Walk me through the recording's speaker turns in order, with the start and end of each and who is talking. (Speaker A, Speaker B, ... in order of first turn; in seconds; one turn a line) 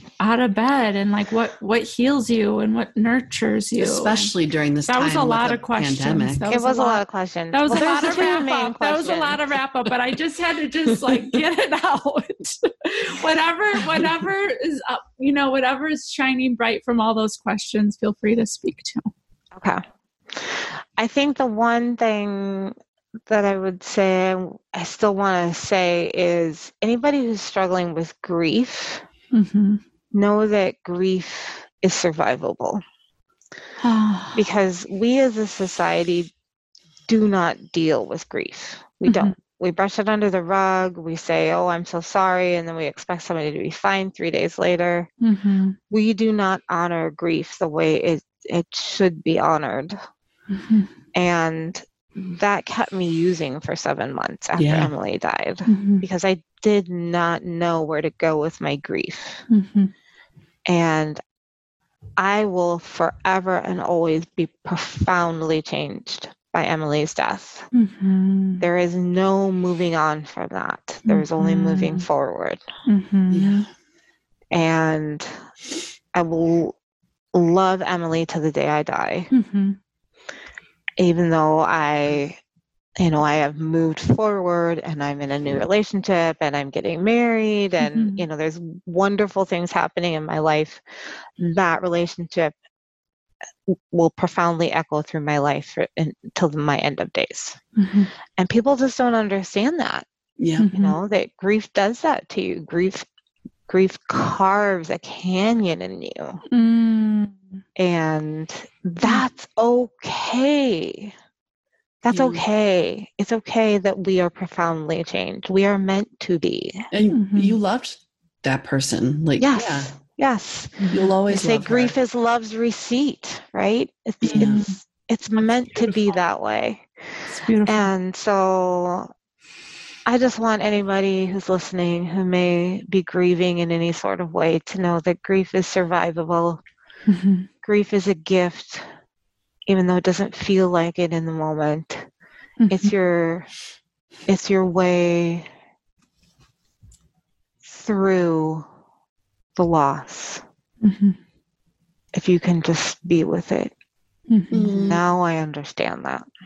Speaker A: 0.2-4.3
Speaker B: 3.8-6.5
Speaker A: 4.9-19.1
Speaker C: 6.5-9.4
Speaker B: 7.7-8.1
Speaker B: 10.9-11.4
Speaker B: 13.8-14.1
Speaker C: 19.6-22.7
Speaker C: 23.3-29.0
Speaker A: 29.3-29.8
Speaker C: 30.1-32.8
Speaker A: 33.8-34.4
Speaker C: 34.3-36.3
Speaker C: 37.1-45.1
Speaker A: 39.1-39.3
Speaker A: 45.2-45.8
Speaker C: 45.9-50.0
Speaker A: 50.5-50.9
Speaker C: 51.1-59.4
Speaker B: 54.6-54.9
Speaker A: 55.7-56.0
Speaker A: 59.5-59.9
Speaker C: 60.7-61.2
Speaker C: 62.2-67.7
Speaker A: 67.7-68.6
Speaker C: 68.6-72.6
Speaker A: 71.0-72.0
Speaker A: 72.9-73.6
Speaker B: 73.3-73.7
Speaker C: 74.5-75.3
Speaker C: 76.1-76.7
Speaker C: 77.3-79.3
Speaker A: 79.3-79.8
Speaker C: 81.0-82.4
Speaker C: 83.0-90.8
Speaker A: 87.8-88.2
Speaker C: 91.4-92.5
Speaker C: 93.7-97.6
Speaker A: 97.8-98.1
Speaker C: 98.4-100.0
Speaker B: 100.4-100.7
Speaker A: 100.6-100.9
Speaker C: 100.7-103.0
Speaker C: 103.7-106.4
Speaker A: 106.5-107.4
Speaker C: 107.8-111.1
Speaker C: 112.0-116.9
Speaker B: 112.1-112.4
Speaker B: 116.9-119.9
Speaker A: 117.1-117.6
Speaker C: 119.4-126.9
Speaker A: 120.8-121.2
Speaker B: 120.9-121.9
Speaker B: 124.2-124.6
Speaker A: 124.2-124.8
Speaker A: 125.3-126.2
Speaker A: 127.2-127.9
Speaker C: 127.7-129.1
Speaker C: 130.1-136.6
Speaker A: 137.1-137.5
Speaker C: 137.6-138.8
Speaker C: 139.7-142.1
Speaker A: 142.6-142.9
Speaker C: 142.7-143.5
Speaker C: 144.3-145.5
Speaker C: 147.6-148.7
Speaker C: 149.6-150.4
Speaker A: 150.8-151.2
Speaker C: 152.1-153.7
Speaker A: 154.3-154.8
Speaker B: 154.5-155.0
Speaker C: 154.8-156.2